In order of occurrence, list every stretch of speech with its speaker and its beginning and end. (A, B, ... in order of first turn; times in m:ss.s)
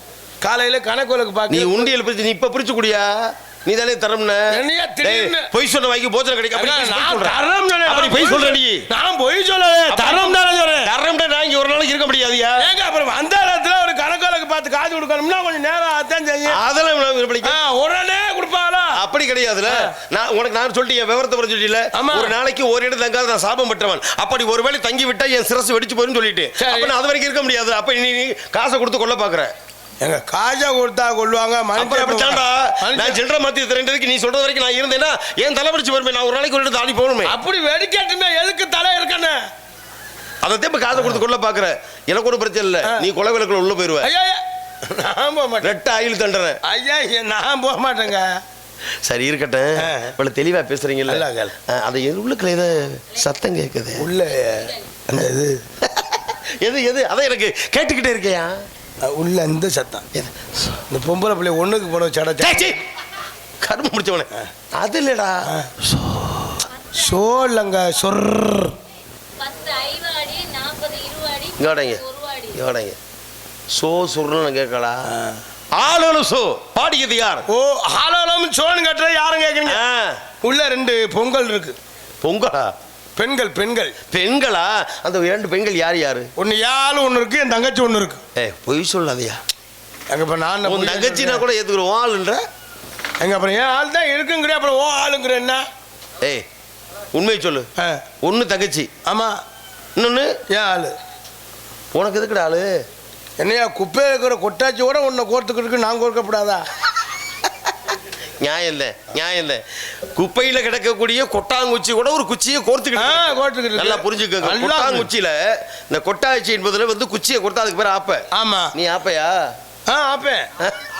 0:00.4-0:01.9 A
0:01.5-0:08.8 B
0:04.5-0:05.5 A
0:06.6-0:10.9 A
0:09.9-0:12.6 B
0:12.6-0:16.6 A
0:16.5-0:17.6 B
0:17.4-0:19.0 A
0:19.0-0:29.5 B
0:19.7-0:19.9 A
0:21.9-0:22.3 A
0:26.6-0:26.9 A
0:30.0-0:33.2 A
0:31.8-0:37.3 B
0:37.2-0:39.4 A
0:40.4-0:44.1 B
0:44.0-0:45.7 A
0:45.6-0:46.6 B
0:46.6-0:48.3 A
0:49.0-0:54.0 B
0:49.8-0:50.1 A
0:51.1-0:51.5 A
0:54.0-0:55.6 A
0:55.8-0:58.6 B
0:59.0-1:00.0 A
1:00.1-1:00.8 B
1:00.9-1:02.7 A
1:02.4-1:02.8 B
1:03.6-1:06.6 B
1:06.9-1:08.7 A
1:09.4-1:11.6 C
1:11.6-1:13.0 B
1:12.1-1:12.5 C
1:13.7-1:15.0 B
1:15.1-1:15.4 A
1:15.7-1:17.4 B
1:17.5-1:19.8 A
1:19.6-1:20.2 B
1:20.4-1:21.7 A
1:22.2-1:22.7 B
1:23.2-1:23.9 A
1:24.1-1:26.3 B
1:26.4-1:28.2 A
1:28.3-1:29.4 B
1:30.1-1:31.4 A
1:30.6-1:32.4 B
1:33.2-1:35.6 A
1:37.1-1:37.7 B
1:38.2-1:38.9 B
1:39.0-1:39.4 A
1:40.0-1:40.3 B
1:40.5-1:40.9 A
1:41.9-1:42.7 B
1:43.4-1:46.6 A
1:48.4-1:49.6 B
1:50.1-1:59.4 B
1:53.0-1:55.1 A
1:58.3-1:58.7 A
1:59.9-2:00.5 A